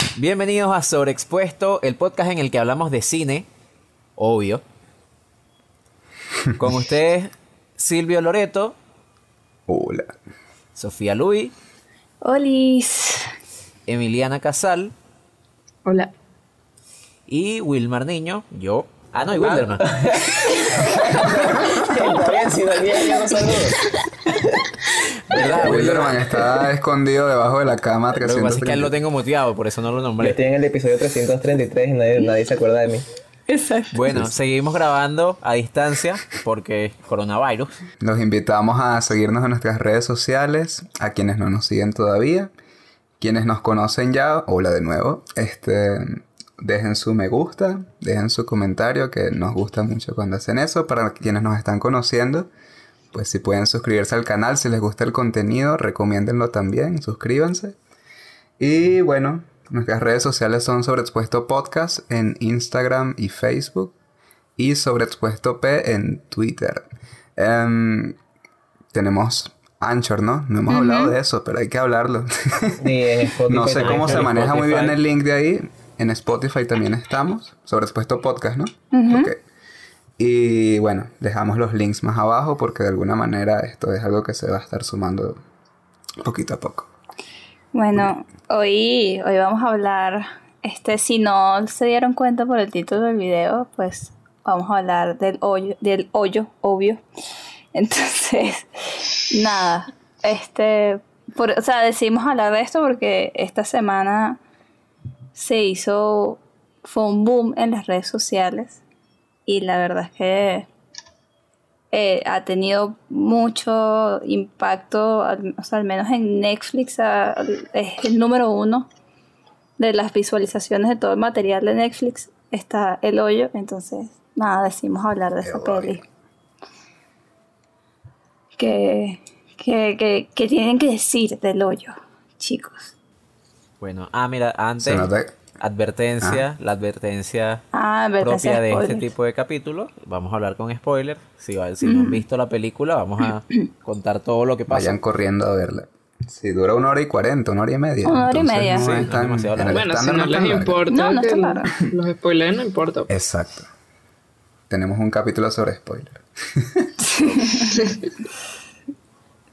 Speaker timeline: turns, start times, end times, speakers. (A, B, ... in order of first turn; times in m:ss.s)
0:00.2-0:03.4 A
0:04.2-0:04.6 A
0:06.6-0:08.8 A
0:09.7-0:10.1 B
0:10.8-0:11.5 A
0:12.2-0:13.3 C
0:13.9-0:14.9 A
0:17.3-0:19.9 A
0:19.3-0:24.8 D
0:25.3-0:26.4 A
0:25.3-0:26.0 D
0:25.5-0:28.9 B
0:28.2-0:30.4 A
0:30.2-0:33.0 D
0:33.5-0:34.0 C
0:33.9-0:37.8 A
0:38.0-0:42.5 B
0:43.2-0:52.5 B
0:53.1-0:57.8 B
0:58.6-1:03.9 B
1:04.6-1:08.2 B
1:08.9-1:19.4 B
1:10.7-1:11.1 C
1:12.8-1:14.4 D
1:13.6-1:15.0 A
1:18.9-1:19.3 C
1:20.2-1:25.4 B
1:26.2-1:26.9 B
1:27.7-1:37.0 C
1:37.7-1:44.4 C
1:45.3-1:48.8 C
1:49.4-1:50.7 C
1:51.9-1:58.9 C
1:59.8-2:06.0 C
2:05.4-2:06.0 B
2:08.6-2:12.9 C
2:13.8-2:17.6 A
2:14.8-2:15.3 B
2:17.7-2:19.1 C
2:18.2-2:25.0 A
2:21.8-2:22.2 C
2:24.7-2:30.8 B
2:28.0-2:29.0 C
2:28.6-2:29.8 A
2:29.6-2:33.1 E
2:30.9-2:31.7 C
2:33.1-2:33.7 B
2:34.7-2:37.6 B
2:37.1-2:37.7 C